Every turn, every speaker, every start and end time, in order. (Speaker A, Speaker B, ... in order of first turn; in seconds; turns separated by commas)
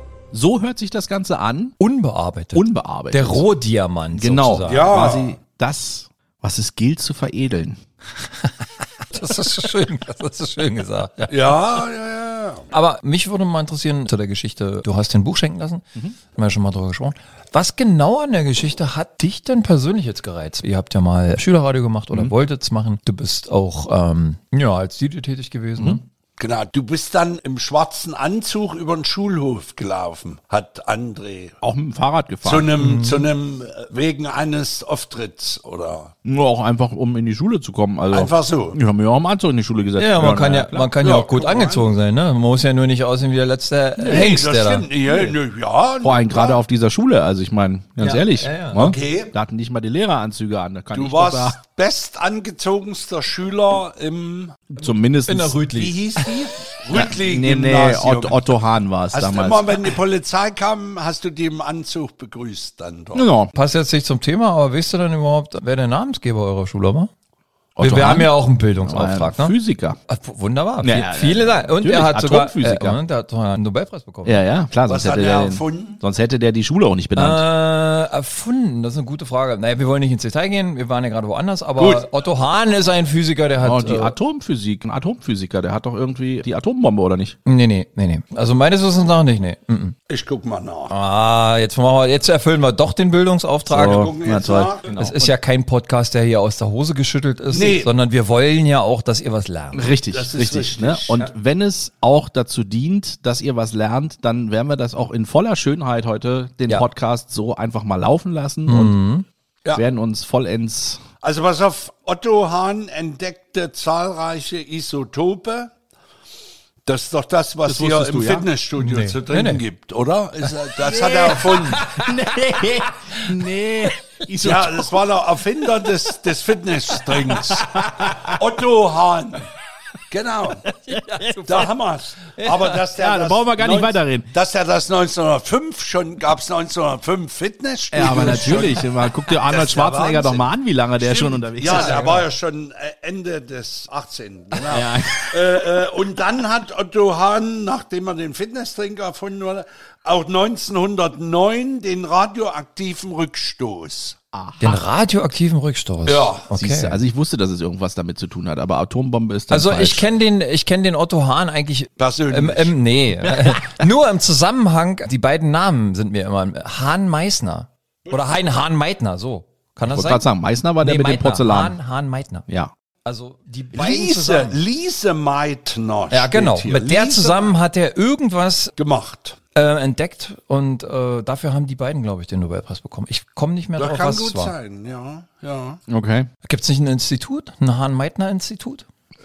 Speaker A: 0.3-1.8, Speaker B: 1.8-4.9, Speaker A: 2.5-3.5, Speaker A: 4.1-7.8, Speaker C: 4.7-5.4, Speaker B: 9.1-11.6, Speaker C: 11.3-12.7, Speaker B: 12.7-26.0, Speaker C: 26.4-31.6, Speaker A: 31.6-32.7, Speaker C: 32.4-36.1, Speaker B: 32.8-33.3, Speaker A: 36.2-40.9, Speaker C: 38.1-38.8, Speaker B: 40.0-44.9, Speaker C: 41.0-41.9, Speaker C: 44.0-46.6, Speaker A: 46.0-51.6, Speaker B: 48.0-48.9, Speaker C: 48.8-49.3, Speaker C: 50.9-54.7, Speaker A: 54.8-55.6, Speaker B: 54.8-56.4, Speaker C: 55.7-58.5, Speaker A: 56.9-59.9, Speaker C: 59.1-63.3, Speaker A: 63.1-63.5, Speaker B: 63.5-67.1, Speaker A: 67.8-68.3, Speaker B: 67.8-69.5, Speaker A: 68.8-70.0, Speaker B: 70.1-74.4, Speaker A: 70.8-73.0, Speaker A: 74.2-77.4, Speaker C: 74.9-76.0, Speaker B: 77.2-84.2, Speaker C: 81.8-82.0, Speaker A: 83.6-87.3, Speaker B: 87.5-90.0, Speaker C: 90.1-90.9, Speaker B: 90.9-94.1, Speaker A: 93.7-95.3, Speaker C: 93.7-94.9, Speaker B: 95.0-99.9, Speaker C: 97.5-97.9, Speaker A: 99.7-109.0, Speaker C: 100.1-101.3, Speaker B: 108.7-109.2, Speaker A: 109.7-111.0, Speaker C: 111.2-115.7, Speaker C: 116.8-121.8, Speaker A: 117.7-118.5, Speaker B: 118.8-119.6, Speaker B: 121.0-122.7, Speaker A: 121.1-125.0, Speaker C: 124.4-129.5, Speaker A: 127.6-128.4, Speaker C: 130.1-130.6, Speaker B: 130.8-131.7, Speaker A: 130.9-131.4, Speaker C: 131.4-140.4, Speaker B: 132.4-132.7, Speaker A: 132.9-134.3, Speaker A: 137.9-142.2, Speaker C: 141.0-154.2, Speaker B: 141.6-142.2, Speaker A: 144.7-145.4, Speaker A: 154.3-154.8, Speaker B: 154.6-157.0, Speaker C: 156.1-156.4, Speaker A: 156.5-160.1, Speaker B: 159.5-170.3, Speaker C: 162.0-162.8, Speaker A: 163.4-163.7, Speaker A: 169.8-171.8, Speaker B: 170.8-172.4, Speaker B: 173.0-174.6, Speaker C: 173.7-177.5, Speaker B: 176.1-178.7, Speaker C: 178.8-179.4, Speaker B: 179.5-184.5, Speaker C: 183.8-185.8, Speaker A: 185.9-186.3, Speaker B: 186.4-188.9